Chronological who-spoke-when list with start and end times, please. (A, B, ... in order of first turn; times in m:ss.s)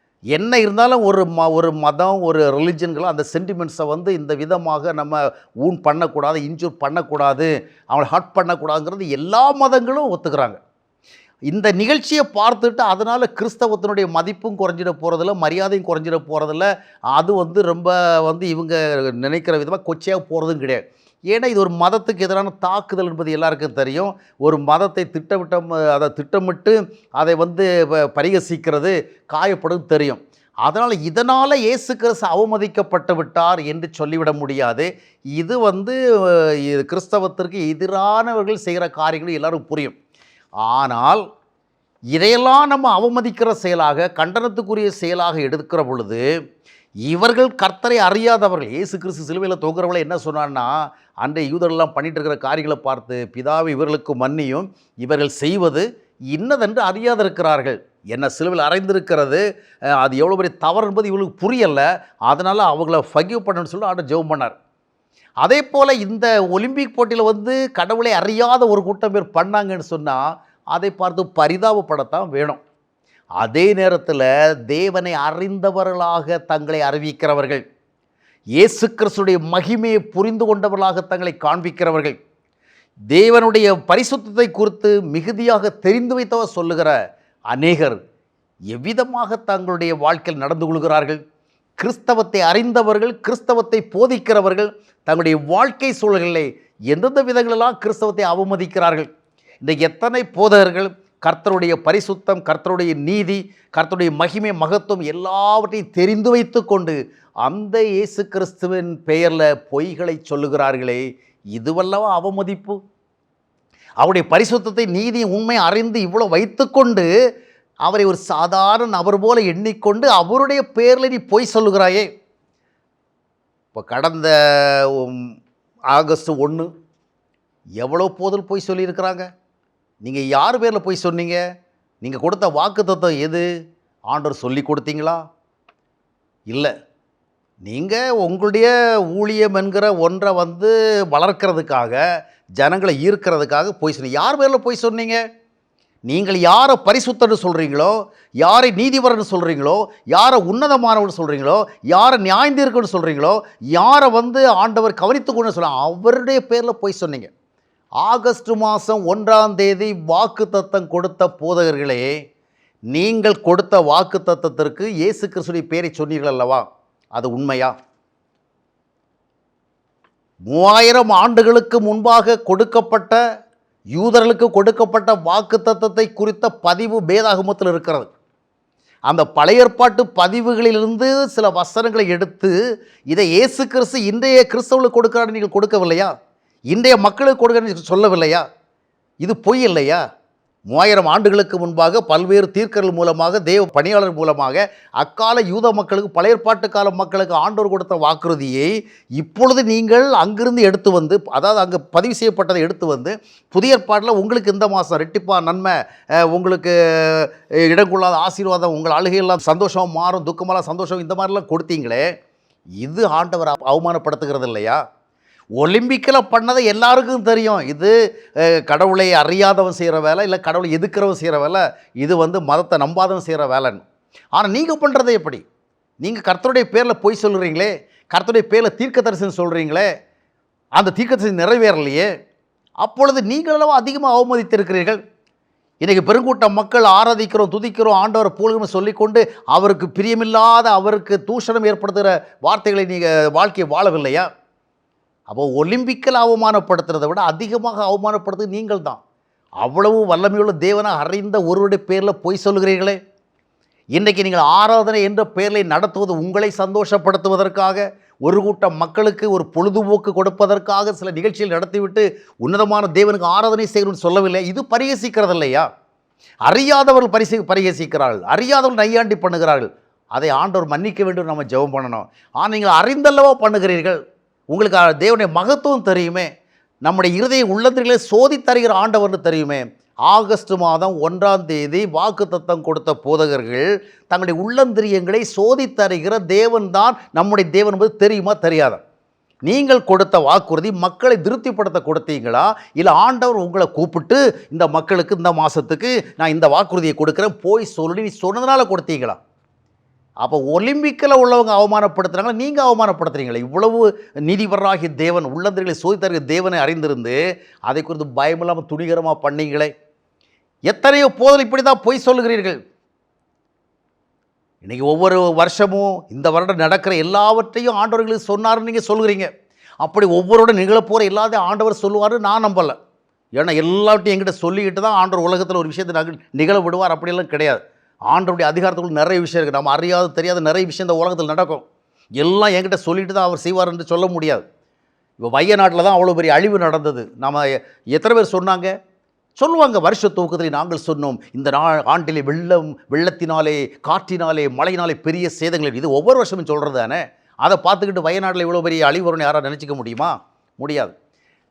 0:00.3-0:10.6 A
0:11.5-0:40.0 A
0:40.6-0:41.2 A
0:42.1-0:46.2 A
0:47.0-0:59.4 A
0:59.9-1:04.5 A
1:05.4-1:12.6 A
1:13.4-1:17.6 A
1:18.6-1:22.2 A
1:23.1-1:26.9 A
1:27.5-1:28.0 A
1:28.7-1:31.2 A
1:31.8-1:39.1 A
1:39.6-1:52.8 A
1:54.0-1:57.1 A
1:57.8-2:02.1 A
2:03.7-2:05.3 A
2:05.9-2:06.7 A
2:07.8-2:09.3 A
2:10.0-2:11.4 A
2:12.0-2:13.5 A
2:14.1-2:15.2 A
2:17.6-2:22.0 A
2:22.6-2:25.2 A
2:26.1-2:37.3 A
2:38.0-2:42.1 A
2:42.9-2:47.7 A
2:50.5-2:53.2 A
2:53.9-2:58.1 A
2:59.1-3:02.5 A
3:03.1-3:06.1 A
3:06.7-3:08.4 A
3:09.2-3:10.0 A
3:10.7-3:32.1 A
3:32.8-3:34.8 A
3:35.6-3:45.4 A
3:46.0-3:49.9 A
3:50.8-3:52.1 A
3:52.8-3:55.0 A
3:55.8-4:04.3 A
4:05.3-4:09.0 A
4:09.6-4:13.0 A
4:13.9-4:25.7 A
4:26.4-4:34.0 A
4:34.5-4:36.3 A
4:36.8-4:48.8 A
4:49.4-4:59.2 A
5:00.2-5:09.7 A
5:10.7-5:12.6 A
5:14.6-5:19.3 A
5:19.8-5:22.8 A
5:23.4-5:31.6 A
5:32.2-5:34.4 A
5:35.2-5:38.7 A
5:39.4-5:50.9 A